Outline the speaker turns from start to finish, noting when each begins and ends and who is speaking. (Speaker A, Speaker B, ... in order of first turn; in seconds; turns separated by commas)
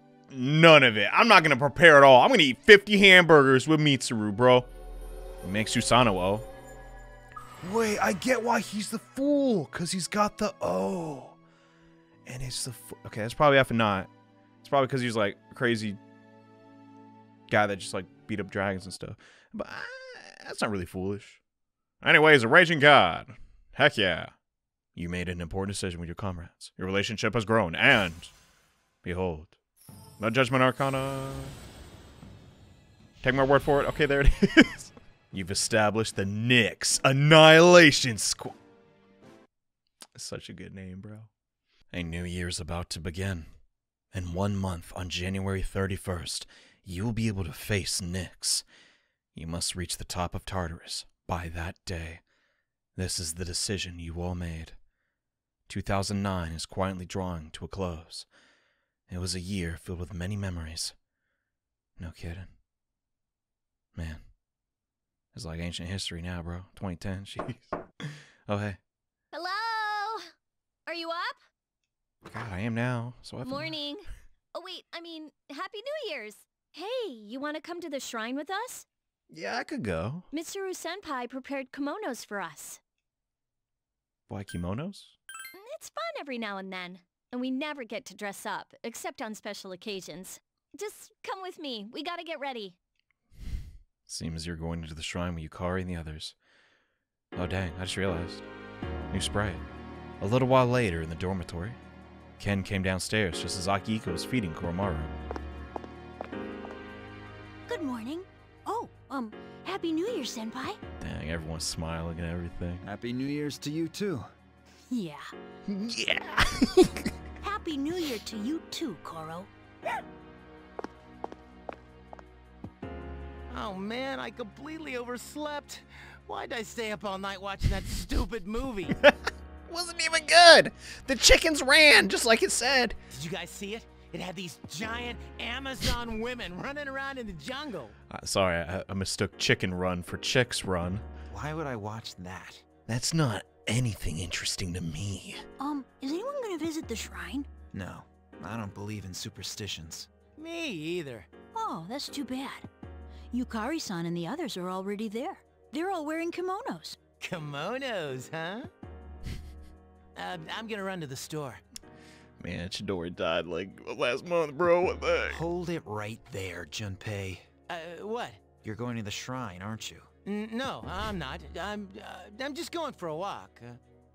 Speaker A: 0.3-4.7, Speaker A: 5.4-6.5, Speaker A: 7.6-11.4, Speaker A: 12.2-14.1, Speaker A: 14.6-16.0, Speaker A: 17.5-21.4, Speaker A: 22.0-24.3, Speaker A: 24.9-28.3, Speaker A: 29.0-29.5, Speaker A: 30.2-31.6, Speaker A: 33.2-38.5, Speaker A: 40.1-41.3, Speaker A: 41.9-43.5, Speaker A: 44.1-48.6, Speaker A: 49.3-52.2, Speaker A: 53.0-54.8, Speaker A: 55.7-58.3, Speaker A: 59.1-60.9, Speaker A: 62.0-62.5, Speaker A: 63.9-64.2, Speaker A: 65.3-68.8, Speaker B: 69.3-70.2, Speaker B: 70.8-71.4, Speaker A: 72.2-73.8, Speaker B: 73.4-78.8, Speaker A: 79.3-80.2, Speaker B: 80.3-82.8, Speaker A: 84.3-85.1, Speaker B: 85.5-92.8, Speaker A: 94.1-96.3, Speaker A: 97.3-98.5, Speaker A: 99.1-99.6, Speaker A: 100.2-101.8, Speaker A: 102.4-105.1, Speaker C: 107.7-110.8, Speaker A: 111.0-112.8, Speaker D: 112.8-114.3, Speaker C: 114.9-115.3, Speaker A: 115.7-117.1, Speaker C: 117.4-119.5, Speaker E: 123.5-129.0, Speaker A: 129.7-133.0, Speaker E: 133.1-137.9, Speaker A: 138.1-141.1, Speaker D: 141.3-142.6, Speaker A: 142.9-145.4, Speaker C: 145.6-147.5, Speaker D: 147.7-150.1, Speaker E: 150.4-151.3, Speaker C: 151.5-152.7, Speaker C: 153.3-157.0, Speaker E: 157.2-158.7, Speaker E: 160.2-161.6, Speaker A: 162.4-165.4, Speaker D: 165.3-167.5, Speaker E: 167.7-168.4, Speaker D: 168.6-170.1, Speaker E: 170.2-173.8